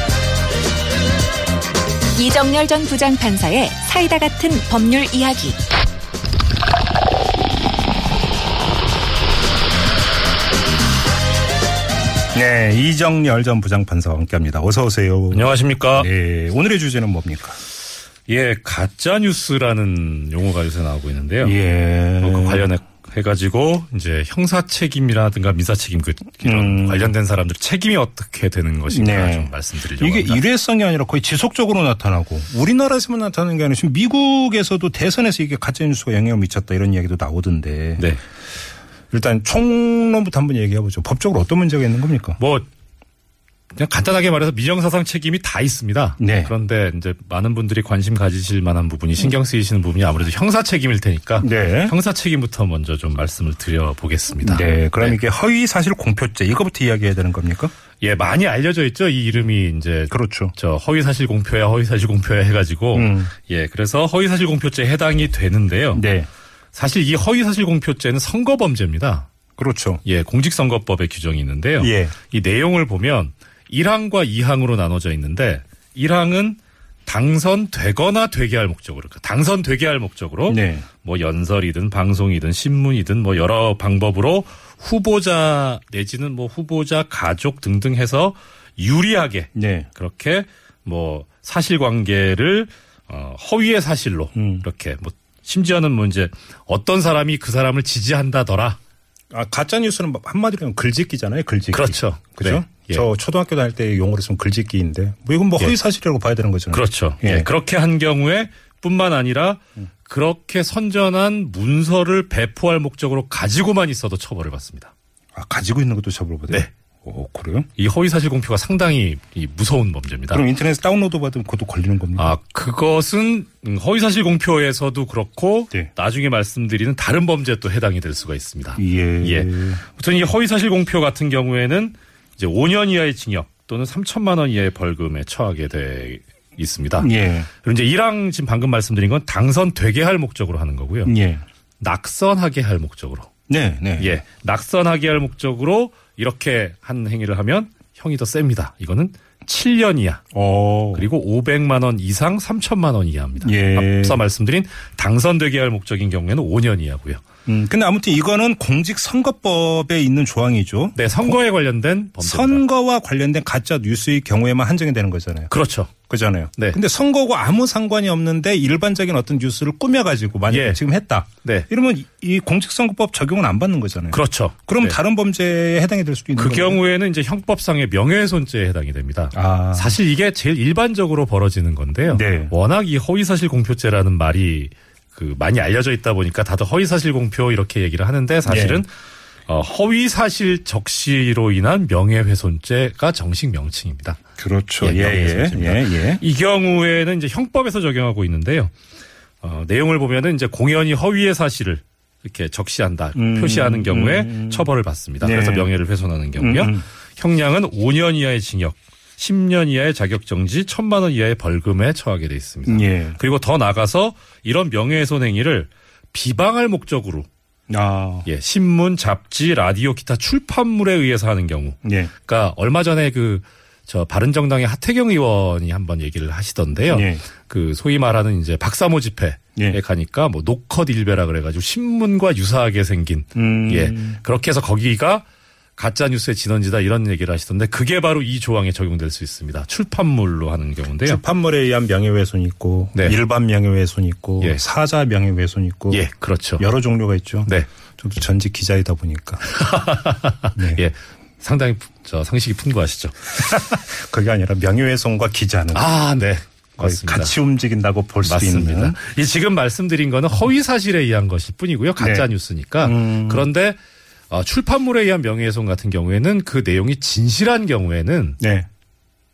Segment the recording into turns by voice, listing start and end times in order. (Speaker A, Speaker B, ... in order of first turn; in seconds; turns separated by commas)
Speaker A: 2.1-5.6, Speaker B: 12.3-17.6, Speaker C: 15.3-16.1, Speaker C: 18.3-21.6, Speaker B: 21.4-22.7, Speaker C: 22.2-30.4, Speaker B: 26.4-27.1, Speaker B: 28.9-38.1, Speaker B: 39.1-42.4, Speaker C: 42.4-42.7, Speaker C: 43.7-55.2, Speaker B: 46.2-46.5, Speaker B: 51.4-52.0, Speaker B: 54.4-57.7, Speaker C: 58.0-66.0, Speaker B: 60.1-60.5, Speaker B: 62.9-63.3, Speaker B: 65.9-66.3, Speaker C: 66.7-69.3, Speaker B: 69.6-70.0, Speaker C: 70.0-98.8, Speaker B: 71.8-72.1, Speaker B: 80.5-80.9, Speaker B: 89.5-89.9, Speaker B: 94.3-94.7, Speaker B: 99.3-107.5, Speaker C: 101.7-103.1, Speaker C: 106.7-114.9, Speaker B: 115.3-117.7, Speaker C: 117.8-120.4, Speaker B: 120.3-122.3, Speaker C: 122.2-141.1, Speaker B: 128.8-129.8, Speaker B: 137.0-137.5, Speaker B: 141.1-141.4, Speaker C: 141.8-143.3, Speaker B: 143.5-144.2, Speaker C: 144.0-150.2, Speaker B: 150.3-151.1, Speaker C: 150.9-157.2, Speaker B: 153.4-154.2, Speaker B: 157.5-161.4, Speaker C: 160.9-162.6, Speaker B: 162.2-165.5, Speaker C: 165.5-165.9, Speaker B: 166.1-176.8, Speaker C: 170.5-170.8, Speaker C: 174.1-175.0, Speaker C: 176.4-188.9, Speaker B: 179.3-180.0, Speaker B: 182.1-182.5, Speaker B: 188.5-188.8, Speaker C: 189.5-194.2, Speaker B: 194.4-196.2, Speaker C: 194.8-198.7, Speaker C: 199.4-217.3, Speaker B: 203.2-204.7, Speaker B: 205.2-205.7, Speaker B: 206.4-206.8, Speaker B: 212.7-213.2, Speaker B: 217.7-218.3, Speaker C: 218.2-235.3, Speaker B: 221.8-222.1, Speaker B: 226.9-227.2, Speaker B: 233.3-234.2, Speaker C: 235.8-241.2, Speaker B: 241.0-246.1, Speaker C: 245.9-246.7, Speaker B: 246.6-249.4, Speaker C: 249.5-253.7, Speaker B: 250.6-250.9, Speaker B: 253.4-255.9, Speaker C: 255.7-257.3, Speaker B: 256.8-259.0, Speaker C: 258.2-268.4, Speaker B: 262.0-262.3, Speaker B: 262.8-263.5, Speaker B: 268.4-268.7